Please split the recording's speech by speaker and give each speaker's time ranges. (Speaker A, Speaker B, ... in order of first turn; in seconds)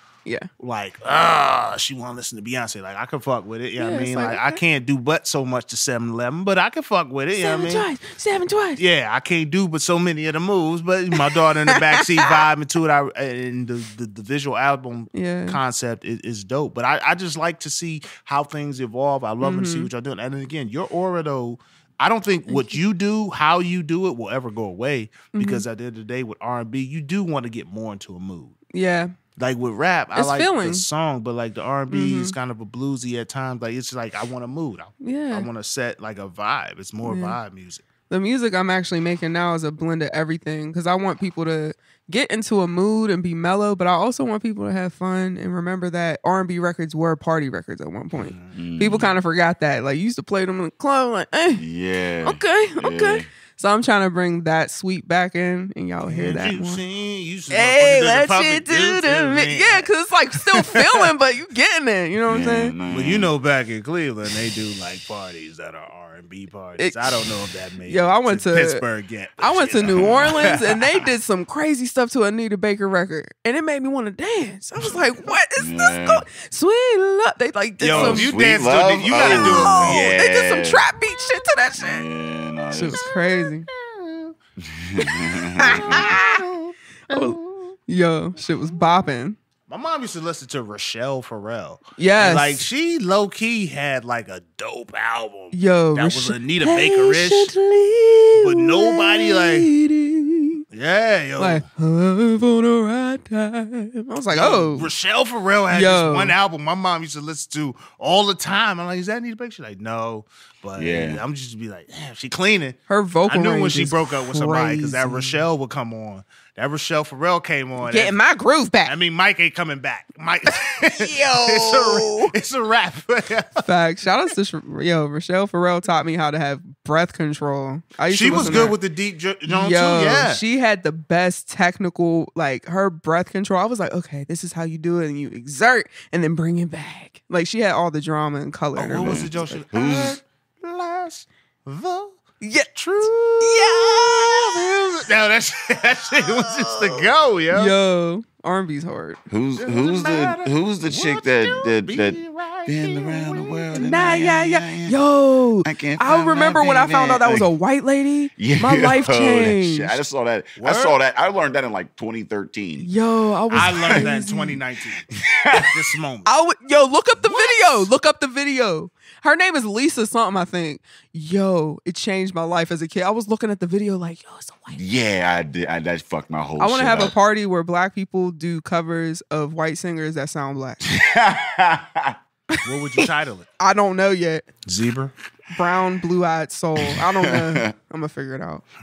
Speaker A: 0.6-7.9, 8.8-28.6, 29.4-37.8, 48.2-48.5, 56.0-59.9, 60.4-61.1, 62.9-70.6, 77.8-80.1, 83.1-84.3, 85.6-87.7, 89.7-97.5, 98.4-99.7, 100.7-101.6, 104.3-118.2, 118.8-123.7, 128.1-130.4, 138.8-142.2, 142.7-147.7, 149.6-153.7, 160.6-161.0, 163.5-166.3, 167.2-167.9, 182.6-183.5, 184.6-185.1
Speaker B: 3.8-4.6, 7.4-8.8, 15.1-15.6, 19.4-19.9, 22.5-22.8, 25.3-25.6, 28.7-29.1, 30.1-30.9, 31.9-32.3, 35.0-35.5, 37.0-37.4, 38.1-51.6, 52.2-56.8, 57.5-62.7, 66.8-67.2, 67.9-68.8, 69.4-78.3, 79.2-82.0, 82.7-83.7, 85.6-86.4, 87.1-87.4, 87.9-89.4, 92.0-92.7, 95.5-100.6, 101.4-104.9, 105.7-106.4, 112.9-115.4, 117.8-118.9, 120.8-122.3, 123.6-128.8, 129.5-139.6, 142.4-144.8, 146.7-147.0, 147.5-149.2, 153.7-160.0, 162.8-164.6, 166.2-174.8, 176.6-180.8, 183.6-184.5, 185.5-188.6
Speaker C: 48.5-49.1, 51.5-53.3, 62.2-63.3, 70.0-70.5, 75.6-76.3, 77.9-80.9, 81.8-83.1, 84.6-86.1, 110.8-111.2, 128.3-128.7, 138.9-140.2, 149.3-155.0, 155.6-157.5, 158.4-162.9, 163.6-164.1, 165.1-165.7, 174.7-177.1, 180.8-182.2, 186.8-187.7